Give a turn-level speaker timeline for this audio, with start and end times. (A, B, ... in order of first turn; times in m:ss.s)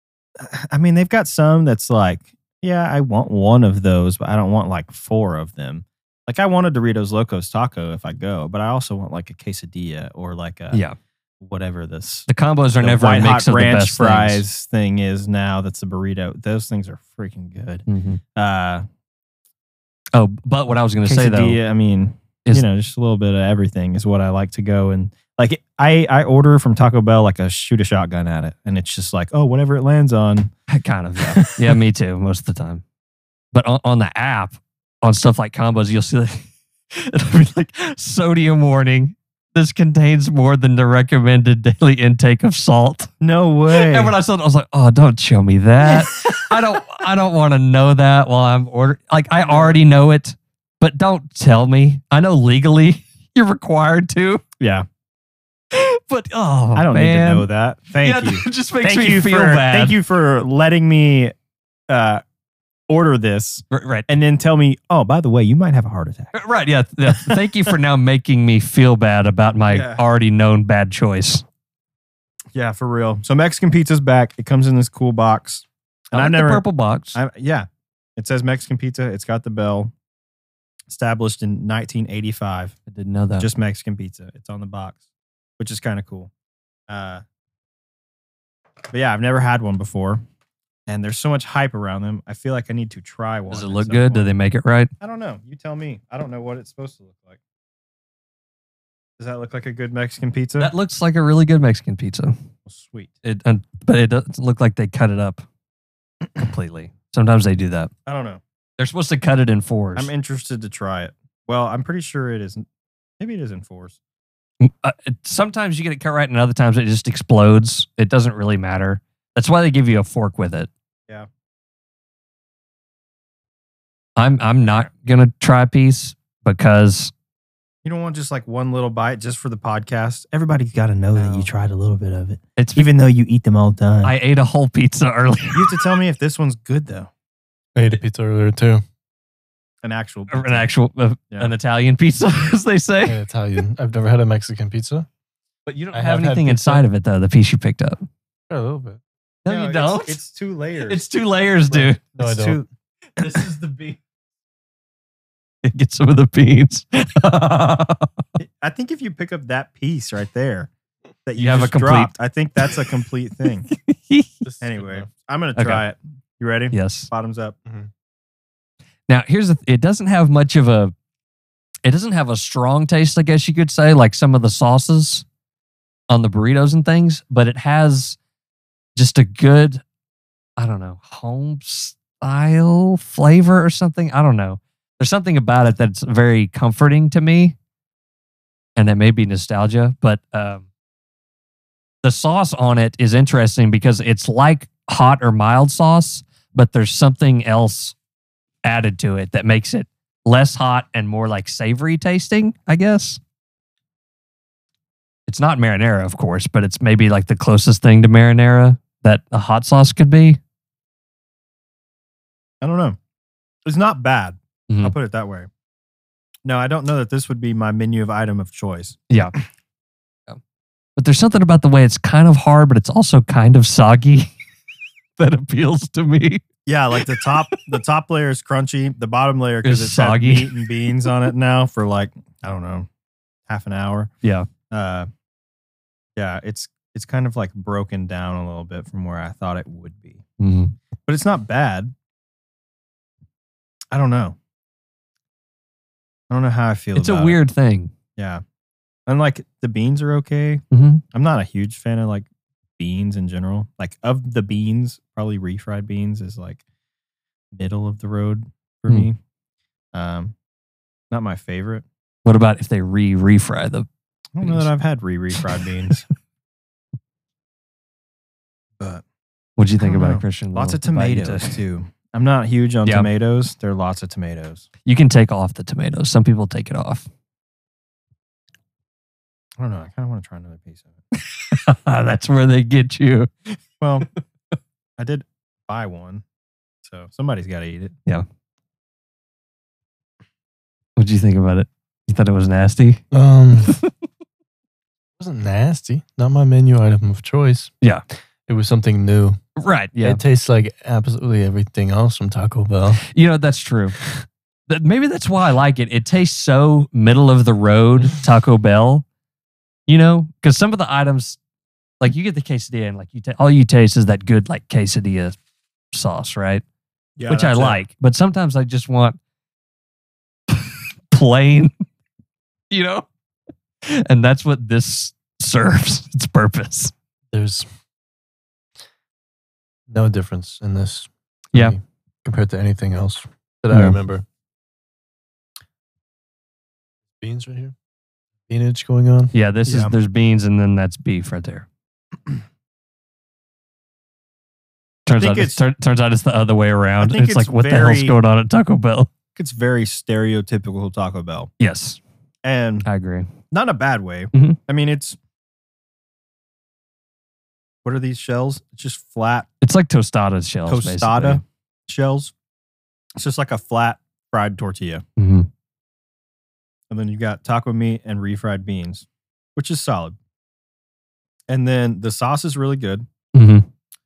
0:00.4-0:10.8 A
0:10.7-0:11.0 B
0:11.4-0:12.3 A
0:12.3-0:14.4 B
0:12.8-0:18.8 A
0:17.9-0:18.2 B
0:20.1-0:21.6 B
0:21.0-0:30.5 A
0:30.7-0:32.8 B
0:31.2-0:31.7 A
0:33.5-0:43.1 B
0:43.2-0:44.1 A
0:43.7-0:54.4 B
0:45.8-0:46.5 A
0:49.5-0:49.7 A
0:54.6-0:54.8 A
0:55.7-0:57.5 B
0:56.7-1:01.3 A
0:58.0-1:00.0 B
1:01.9-1:02.2 A
1:02.9-1:06.3 A
1:03.7-1:04.1 B
1:06.3-1:11.4 B
1:07.1-1:07.7 A
1:09.7-1:10.0 A
1:12.5-1:16.6 A
1:16.1-1:17.2 B
1:17.1-1:19.9 A
1:20.9-1:22.8 A
1:22.9-1:23.5 B
1:23.4-1:25.0 A
1:25.6-1:26.3 A
1:26.9-1:27.2 A
1:28.9-1:30.2 A
1:30.9-1:34.3 A
1:33.5-1:34.9 B
1:35.0-1:37.4 A
1:39.2-1:40.7 A
1:40.6-1:42.3 B
1:42.6-1:43.1 A
1:43.2-1:45.4 B
1:46.4-1:47.9 B
1:48.0-1:48.4 A
1:48.8-1:50.1 B
1:50.0-1:52.6 A
1:53.2-1:54.0 A
1:54.6-2:00.7 B
2:04.2-2:07.1 B
2:07.8-2:14.1 A
2:11.2-2:11.5 B
2:12.6-2:12.9 B
2:14.0-2:15.7 B
2:15.5-2:17.1 A
2:17.8-2:18.8 C
2:19.8-2:20.7 A
2:20.3-2:23.2 B
2:23.0-2:25.1 C
2:25.6-2:28.0 B
2:25.9-2:26.8 C
2:28.5-2:29.0 C
2:29.4-2:30.2 B
2:29.5-2:31.0 A
2:30.8-2:32.0 B
2:31.7-2:32.6 C
2:32.2-2:32.6 A
2:33.2-2:34.0 B
2:35.6-2:38.2 B
2:38.4-2:40.7 A
2:41.2-2:43.7 A
2:41.4-2:42.1 B
2:43.7-2:44.3 B
2:44.4-2:45.1 C
2:44.6-2:47.5 A
2:45.6-2:45.8 B
2:46.7-2:47.1 B
2:49.1-2:50.9 B
2:51.8-2:55.2 B
2:56.1-2:58.2 B
2:59.0-2:59.8 B
3:00.6-3:07.6 B
3:08.8-3:10.6 B
3:12.0-3:18.0 B
3:18.6-3:23.2 B
3:25.3-3:30.4 B
3:32.6-3:33.0 A
3:33.6-3:35.5 A
3:34.7-3:34.9 B
3:36.4-3:39.4 A
3:39.1-3:39.3 B
3:41.0-3:44.3 B
3:45.2-3:46.4 B
3:46.6-3:52.9 A
3:49.6-3:50.5 B
3:53.5-3:54.1 A
3:54.2-3:54.5 B
3:54.7-3:55.1 A
3:56.2-4:00.2 A
4:00.4-4:00.8 B
4:01.0-4:01.9 A
4:03.9-4:04.4 A
4:06.3-4:07.4 A
4:06.9-4:07.9 B
4:08.2-4:08.4 A
4:09.1-4:16.6 A
4:10.7-4:11.0 B
4:17.5-4:19.2 A
4:19.9-4:20.3 A
4:21.1-4:21.8 A
4:22.2-4:23.9 B
4:24.3-4:26.0 A
4:24.4-4:24.7 B
4:28.8-4:29.0 A
4:29.6-4:31.6 B
4:29.8-4:34.7 A
4:32.8-4:33.1 B
4:34.8-4:37.1 B
4:39.6-4:41.0 A
4:41.5-4:43.6 B
4:43.8-4:44.1 A
4:45.0-4:46.2 A
4:46.8-4:47.9 A
4:51.0-4:53.0 B
4:53.1-4:53.7 C
4:55.2-4:57.7 C
4:58.5-4:59.4 C
4:59.6-5:00.2 B
5:00.0-5:03.1 C
5:03.1-5:04.0 B
5:04.7-5:09.0 B
5:09.9-5:11.4 B
5:12.0-5:15.4 B
5:15.9-5:16.6 B
5:17.2-5:17.8 A
5:17.3-5:19.2 B
5:20.5-5:21.7 B
5:22.7-5:23.0 B
5:23.8-5:26.9 B
5:27.3-5:27.6 C
5:29.9-5:34.2 C
5:37.2-5:37.7 C
5:38.5-5:39.3 C
5:39.3-5:41.6 B
5:39.7-5:39.9 A
5:45.0-5:49.1 B
5:45.1-5:45.6 A
5:47.0-5:48.1 A
5:49.4-5:51.5 A
5:51.6-5:52.0 B
5:52.4-5:52.9 A
5:52.8-5:53.3 B
5:53.5-5:55.2 A
5:57.8-5:59.5 A
5:59.6-6:01.4 B
6:00.7-6:02.3 A
6:03.2-6:05.0 A
6:05.2-6:05.5 B
6:06.9-6:10.2 A
6:11.5-6:13.1 A
6:13.3-6:13.7 B